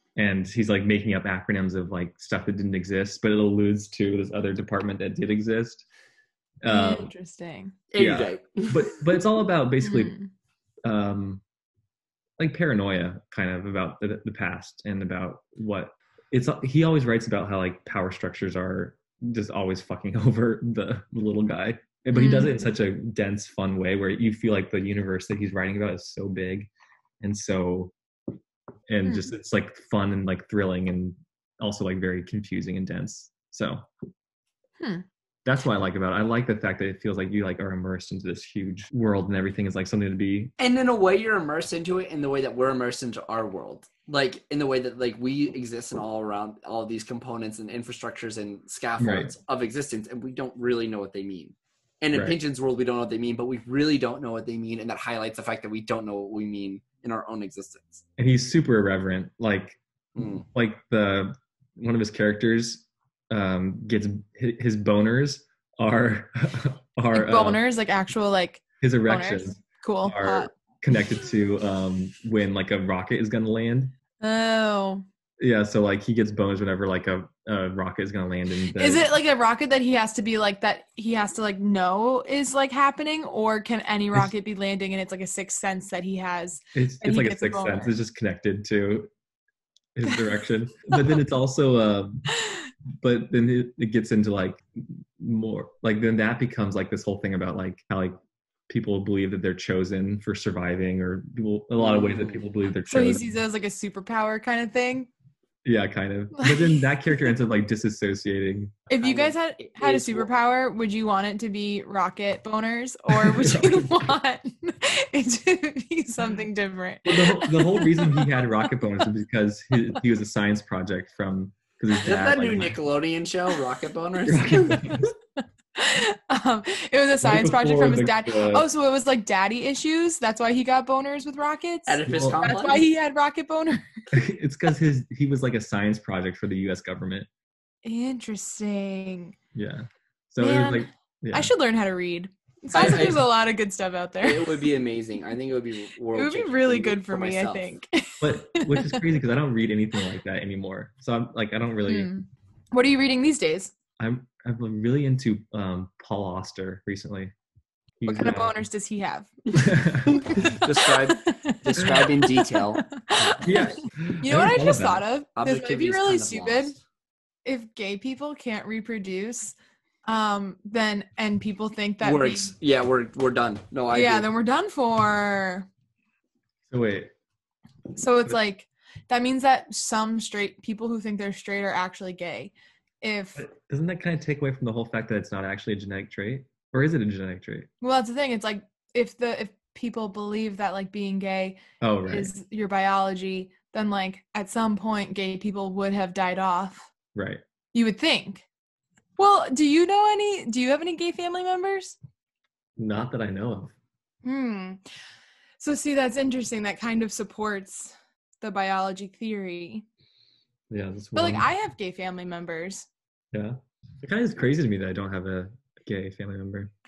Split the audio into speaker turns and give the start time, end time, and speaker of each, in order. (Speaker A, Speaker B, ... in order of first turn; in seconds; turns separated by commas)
Speaker A: 0.2-5.8, Speaker A: 6.6-7.1, Speaker B: 6.7-7.8, Speaker C: 7.9-9.0, Speaker A: 8.0-10.1, Speaker B: 9.8-10.3, Speaker A: 10.8-11.4, Speaker A: 12.4-26.7, Speaker B: 22.1-22.5, Speaker A: 27.2-27.9, Speaker A: 28.9-33.9, Speaker B: 29.0-29.3, Speaker B: 34.8-35.0, Speaker A: 35.5-40.5, Speaker C: 40.6-58.0, Speaker A: 49.0-49.3, Speaker A: 58.2-59.8, Speaker C: 60.2-60.5, Speaker A: 60.4-67.6, Speaker B: 67.1-70.5, Speaker A: 68.8-74.0, Speaker B: 74.2-75.0, Speaker A: 75.4-79.1, Speaker B: 78.8-87.9, Speaker A: 86.7-89.1, Speaker A: 90.0-92.3, Speaker B: 90.1-90.3, Speaker B: 90.9-91.2, Speaker A: 93.0-98.2, Speaker A: 98.7-103.3, Speaker C: 101.8-102.5, Speaker B: 102.9-105.1, Speaker A: 105.6-108.9, Speaker B: 106.3-107.3, Speaker B: 108.9-118.5, Speaker C: 109.0-110.3, Speaker A: 113.1-114.2, Speaker A: 117.0-122.8, Speaker C: 122.0-125.1, Speaker A: 124.3-125.1, Speaker B: 125.8-133.9, Speaker A: 127.2-128.7, Speaker C: 131.9-132.9, Speaker A: 132.1-132.5, Speaker A: 134.1-137.3, Speaker B: 137.8-139.4, Speaker A: 139.6-141.5, Speaker B: 140.4-144.7, Speaker C: 142.7-143.3, Speaker C: 144.2-147.7, Speaker B: 146.2-149.1, Speaker A: 148.2-152.1, Speaker B: 151.9-153.7, Speaker A: 154.0-157.3, Speaker A: 158.0-158.5, Speaker B: 158.1-159.8, Speaker A: 159.5-160.6, Speaker C: 160.1-163.4, Speaker B: 160.3-166.8, Speaker A: 163.4-165.0, Speaker C: 165.4-166.8, Speaker B: 167.4-172.5, Speaker C: 172.0-174.3, Speaker B: 173.9-175.7, Speaker A: 176.7-177.1, Speaker B: 178.0-183.4, Speaker A: 183.4-187.7, Speaker B: 187.8-196.9, Speaker A: 191.8-192.3, Speaker A: 197.2-197.4, Speaker B: 197.7-198.4, Speaker B: 199.2-202.0, Speaker A: 202.8-203.7, Speaker B: 204.2-204.8, Speaker B: 205.6-209.8, Speaker A: 210.7-211.5, Speaker B: 211.2-212.9, Speaker A: 213.3-216.7